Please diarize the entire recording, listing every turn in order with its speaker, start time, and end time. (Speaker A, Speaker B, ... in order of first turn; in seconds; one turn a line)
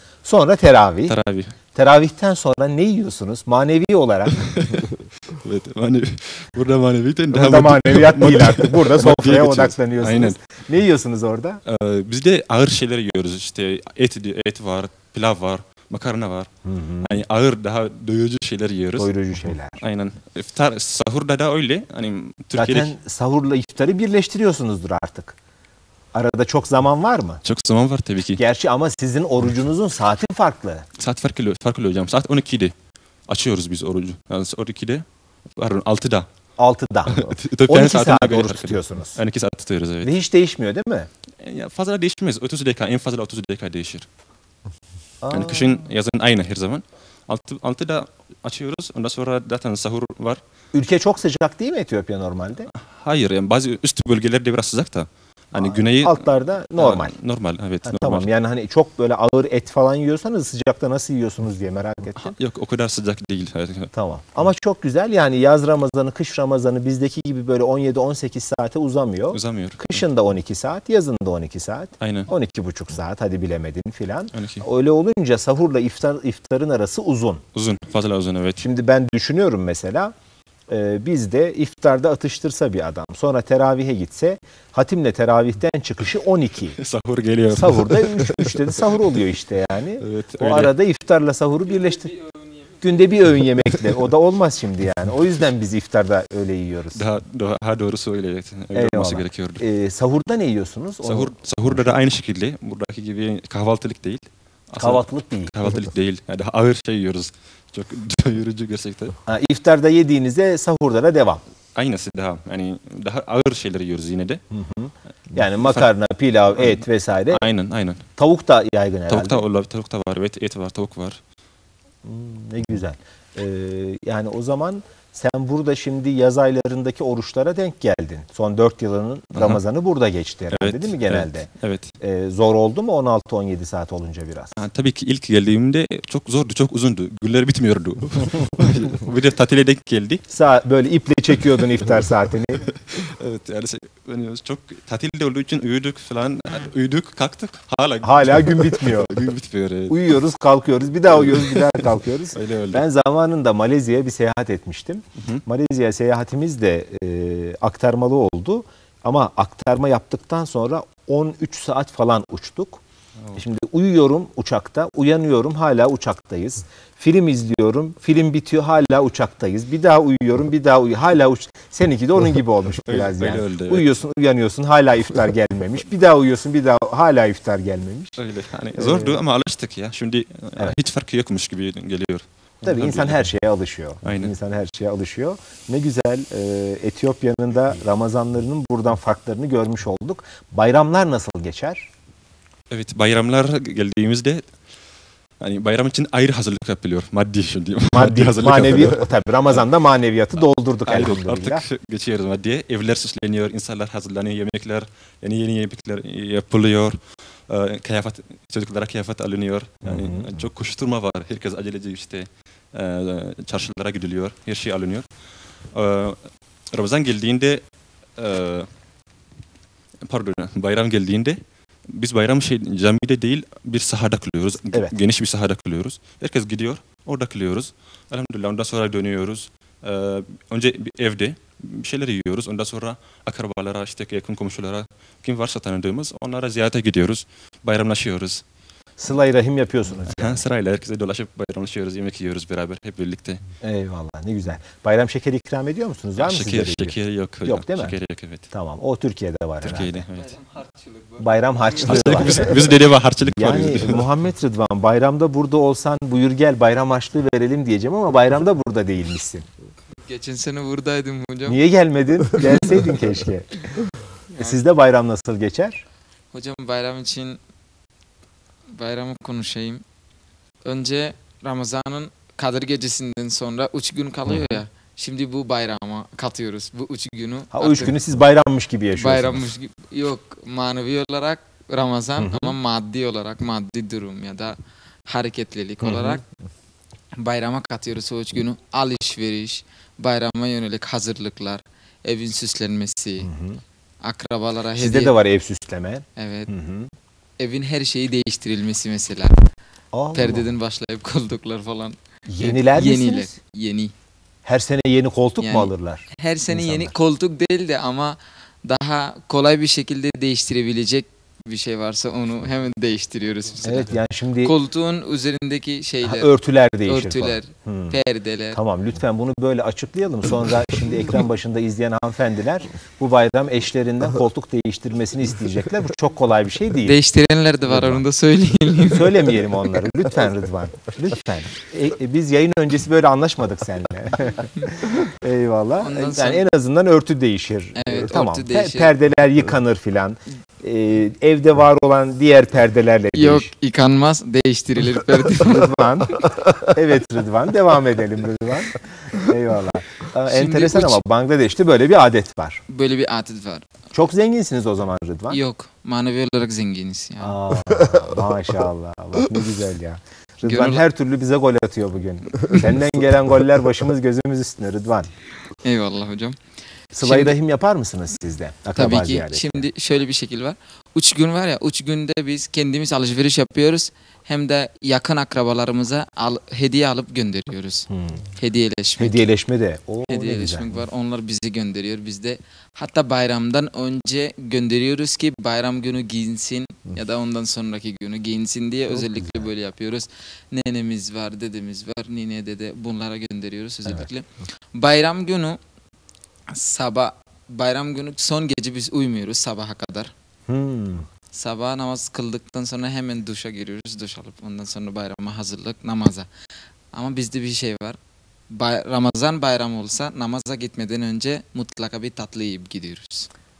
Speaker A: 0.2-1.1
Speaker B: 1.1-1.5
Speaker A: 1.7-4.4
Speaker B: 4.3-10.4
Speaker A: 7.3-11.6
Speaker B: 11.6-16.5
Speaker A: 16.6-17.2
Speaker B: 17.0-19.1
Speaker A: 19.0-19.8
Speaker B: 19.8-22.9
Speaker A: 22.5-25.4
Speaker A: 26.1-27.4
Speaker B: 27.4-28.4
Speaker A: 28.4-30.9
Speaker B: 31.0-32.7
Speaker B: 33.3-36.3
Speaker A: 36.6-39.2
Speaker B: 37.1-40.1
Speaker A: 40.0-41.1
Speaker B: 41.4-44.1
Speaker A: 45.2-45.8
Speaker B: 45.3-50.4
Speaker A: 50.7-52.7
Speaker B: 52.8-58.3
Speaker A: 55.5-57.1
Speaker A: 57.8-62.4
Speaker B: 62.2-63.9
Speaker A: 63.9-77.4
Speaker B: 69.3-70.0
Speaker B: 72.0-72.3
Speaker B: 74.3-74.6
Speaker B: 77.5-78.6
Speaker A: 78.6-80.1
Speaker A: 80.7-86.8
Speaker B: 86.7-88.5
Speaker A: 87.5-92.1
Speaker B: 90.0-90.7
Speaker C: 92.2-92.5
Speaker A: 92.8-97.0
Speaker B: 96.9-99.6
Speaker A: 98.7-101.9
Speaker B: 101.0-109.2
Speaker A: 104.8-105.5
Speaker A: 109.3-111.4
Speaker B: 111.7-114.4
Speaker A: 114.5-117.4
Speaker B: 115.6-115.9
Speaker B: 116.6-118.0
Speaker A: 118.2-119.4
Speaker B: 119.1-121.2
Speaker A: 122.0-134.6
Speaker B: 129.3-129.6
Speaker B: 130.5-131.9
Speaker B: 134.6-140.2
Speaker A: 140.3-142.6
Speaker B: 142.9-150.2
Speaker A: 148.0-149.3
Speaker A: 149.9-162.8
Speaker B: 151.2-152.8
Speaker A: 163.3-178.2
Speaker B: 172.8-173.9
Speaker B: 178.2-183.3
Speaker A: 178.7-179.2
Speaker A: 182.6-191.9
Speaker B: 184.0-184.3
Speaker B: 192.7-194.5
Speaker B: 195.4-199.6
Speaker A: 197.9-201.6
Speaker B: 200.8-215.1
Speaker A: 209.8-210.4
Speaker B: 215.7-217.6
Speaker B: 218.1-218.7
Speaker B: 220.1-238.4
Speaker A: 239.0-240.4
Speaker B: 240.1-243.4
Speaker A: 243.6-247.9
Speaker B: 246.2-248.5
Speaker A: 248.5-250.1
Speaker B: 249.6-250.3
Speaker C: 250.2-252.0
Speaker A: 251.2-252.7
Speaker B: 251.8-254.1
Speaker A: 253.2-259.4
Speaker C: 260.0-261.6
Speaker A: 261.4-263.8
Speaker A: 264.4-265.8
Speaker C: 266.3-267.4
Speaker C: 268.7-269.8
Speaker C: 270.6-277.9
Speaker A: 277.5-279.5
Speaker C: 278.9-284.6
Speaker A: 282.2-282.5
Speaker C: 285.1-286.2
Speaker A: 285.8-286.2
Speaker C: 287.2-293.3
Speaker A: 293.2-293.6
Speaker C: 294.0-295.1
Speaker A: 294.8-296.9
Speaker C: 296.2-296.5
Speaker C: 297.4-299.4
Speaker A: 299.9-300.5
Speaker C: 300.1-303.9
Speaker A: 302.3-303.3
Speaker A: 304.4-306.9
Speaker C: 305.4-316.3
Speaker A: 313.6-314.6
Speaker A: 316.0-318.0
Speaker C: 316.9-318.6
Speaker A: 318.5-327.0
Speaker C: 326.9-329.3
Speaker A: 327.7-328.0
Speaker A: 328.9-343.5
Speaker C: 335.8-336.4
Speaker C: 337.8-338.9
Speaker C: 343.1-345.9
Speaker A: 345.3-352.6
Speaker C: 350.3-351.0
Speaker C: 352.7-353.7
Speaker A: 353.9-355.4
Speaker C: 355.3-357.4
Speaker A: 357.2-365.1
Speaker C: 360.4-360.8
Speaker C: 365.6-366.4
Speaker A: 366.9-369.6
Speaker C: 367.0-367.4
Speaker C: 368.8-379.3
Speaker A: 377.9-378.2
Speaker A: 379.0-380.7
Speaker C: 380.1-395.6
Speaker A: 388.9-389.5
Speaker C: 396.5-400.1
Speaker A: 400.5-401.1
Speaker C: 401.3-406.3
Speaker C: 406.9-408.0
Speaker C: 408.5-413.3